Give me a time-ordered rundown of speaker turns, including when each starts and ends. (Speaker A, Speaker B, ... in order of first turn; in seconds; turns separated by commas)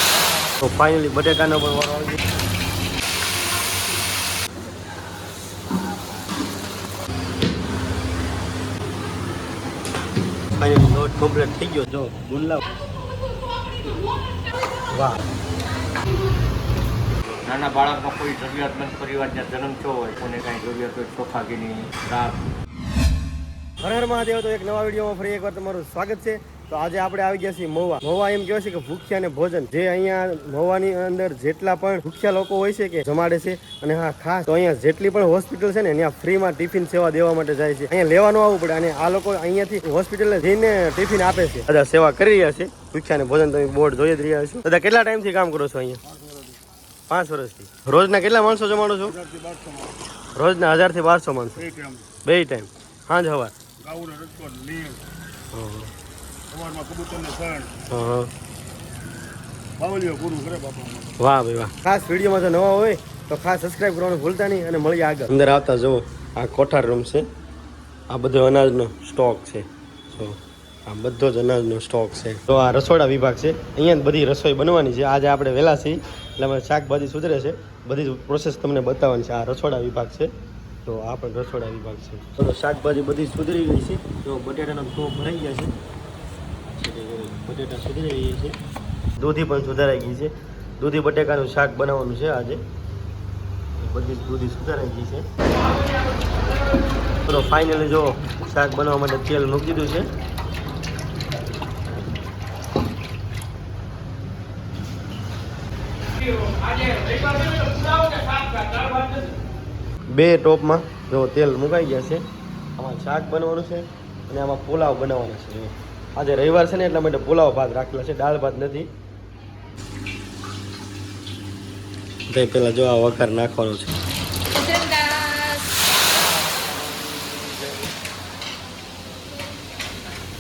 Speaker A: 0.6-2.2, Speaker A: 10.6-12.6, Speaker A: 14.9-15.2, Speaker B: 17.4-22.5, Speaker A: 23.8-46.0, Speaker A: 47.1-49.2, Speaker C: 49.2-49.9, Speaker A: 50.3-51.7, Speaker C: 51.7-52.0, Speaker A: 52.2-53.5, Speaker C: 53.8-55.0, Speaker A: 55.5-55.9, Speaker C: 56.5-57.7, Speaker A: 57.9-58.3, Speaker C: 59.8-61.1, Speaker A: 61.2-67.3, Speaker A: 68.1-80.3, Speaker A: 80.8-85.7, Speaker A: 86.7-88.5, Speaker A: 89.2-92.6, Speaker A: 93.8-95.2, Speaker A: 97.2-100.1, Speaker C: 107.8-108.4, Speaker A: 110.1-112.2, Speaker A: 112.8-118.9, Speaker A: 122.3-124.0, Speaker C: 124.5-125.7